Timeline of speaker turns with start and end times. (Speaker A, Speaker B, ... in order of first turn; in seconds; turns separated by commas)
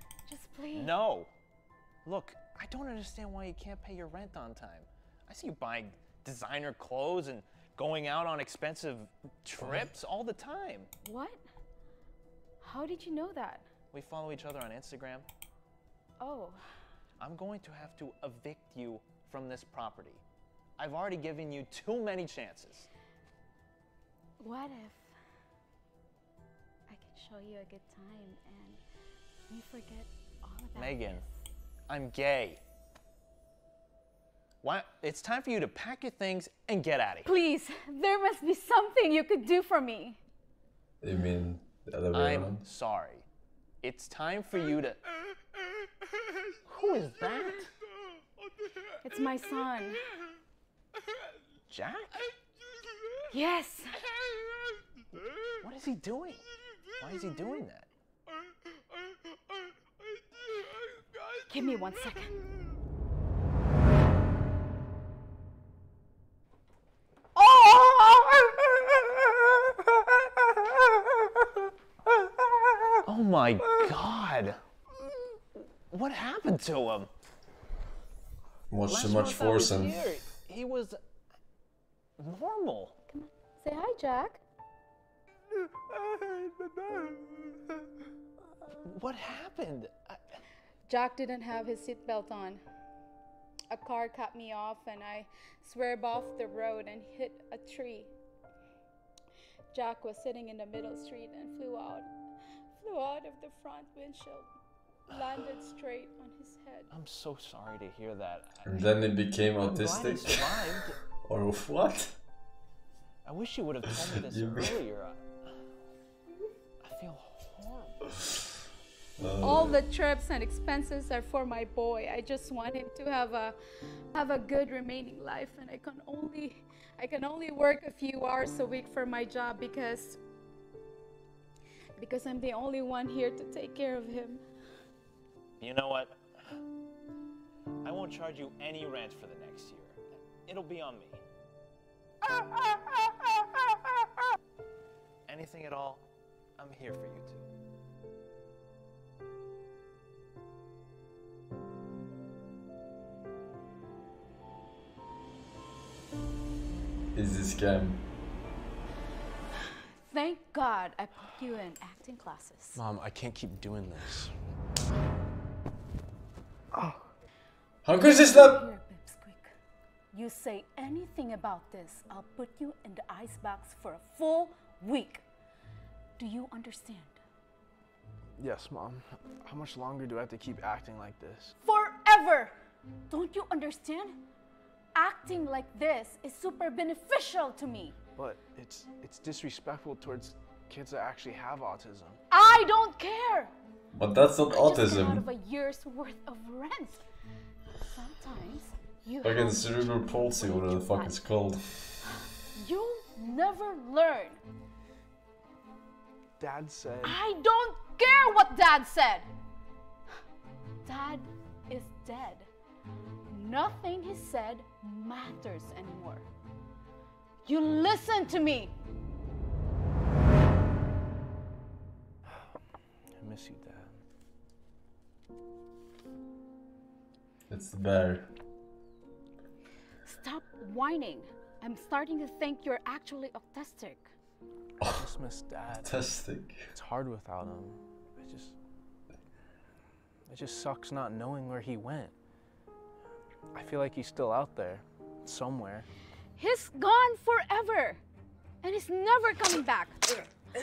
Speaker A: 0.3-1.0, Speaker B: 0.7-1.3, Speaker B: 2.0-10.9, Speaker C: 9.6-9.9, Speaker A: 11.0-11.4, Speaker A: 12.6-13.7, Speaker B: 13.9-15.3, Speaker A: 16.2-16.6, Speaker B: 17.2-20.2, Speaker B: 20.8-22.9, Speaker A: 24.4-25.1, Speaker A: 26.9-28.8, Speaker A: 29.5-31.3, Speaker B: 30.8-31.2, Speaker B: 31.9-32.6, Speaker B: 34.6-37.3, Speaker A: 37.2-40.2, Speaker C: 41.0-42.6, Speaker B: 42.1-43.2, Speaker B: 43.8-45.0, Speaker B: 46.7-47.7, Speaker A: 49.0-50.1, Speaker B: 51.7-52.3, Speaker A: 53.3-54.0, Speaker B: 55.5-56.4, Speaker B: 57.0-57.9, Speaker A: 61.5-62.4, Speaker B: 73.0-74.6, Speaker B: 75.9-77.1, Speaker C: 78.7-80.1, Speaker B: 78.9-81.0, Speaker B: 82.2-83.0, Speaker A: 83.1-84.4, Speaker B: 88.7-90.4, Speaker A: 90.9-92.6, Speaker A: 93.7-98.1, Speaker A: 99.7-102.1, Speaker A: 102.8-104.5, Speaker A: 105.1-106.9, Speaker B: 106.9-108.7, Speaker C: 108.7-110.7, Speaker B: 109.6-111.0, Speaker C: 111.2-112.2, Speaker B: 113.2-115.5, Speaker C: 114.2-114.8, Speaker B: 116.8-118.2, Speaker C: 119.2-119.8, Speaker A: 119.4-123.5, Speaker A: 124.1-130.2, Speaker A: 132.0-134.4, Speaker B: 135.6-136.6, Speaker B: 137.8-141.2, Speaker B: 145.3-147.5, Speaker C: 157.2-158.0, Speaker A: 160.0-162.8, Speaker D: 162.8-164.3, Speaker C: 167.8-168.6, Speaker A: 168.0-169.5, Speaker A: 170.1-175.2, Speaker A: 176.2-177.2, Speaker D: 178.4-181.6, Speaker A: 181.6-182.6, Speaker A: 183.1-184.2, Speaker A: 184.9-188.0, Speaker D: 188.2-192.2, Speaker A: 192.3-193.5, Speaker C: 193.9-195.2, Speaker A: 194.5-197.0, Speaker A: 197.8-201.2, Speaker C: 199.2-202.0, Speaker A: 202.5-204.4, Speaker D: 206.4-207.2, Speaker A: 207.0-209.3, Speaker A: 210.8-212.5, Speaker A: 213.3-216.3, Speaker A: 217.4-218.7, Speaker D: 223.2-224.0, Speaker C: 227.5-228.3, Speaker A: 230.1-234.1, Speaker D: 234.9-235.9, Speaker C: 235.8-236.6, Speaker D: 236.8-238.5, Speaker D: 240.3-242.1, Speaker D: 243.5-245.9, Speaker A: 246.4-248.0, Speaker A: 248.6-250.0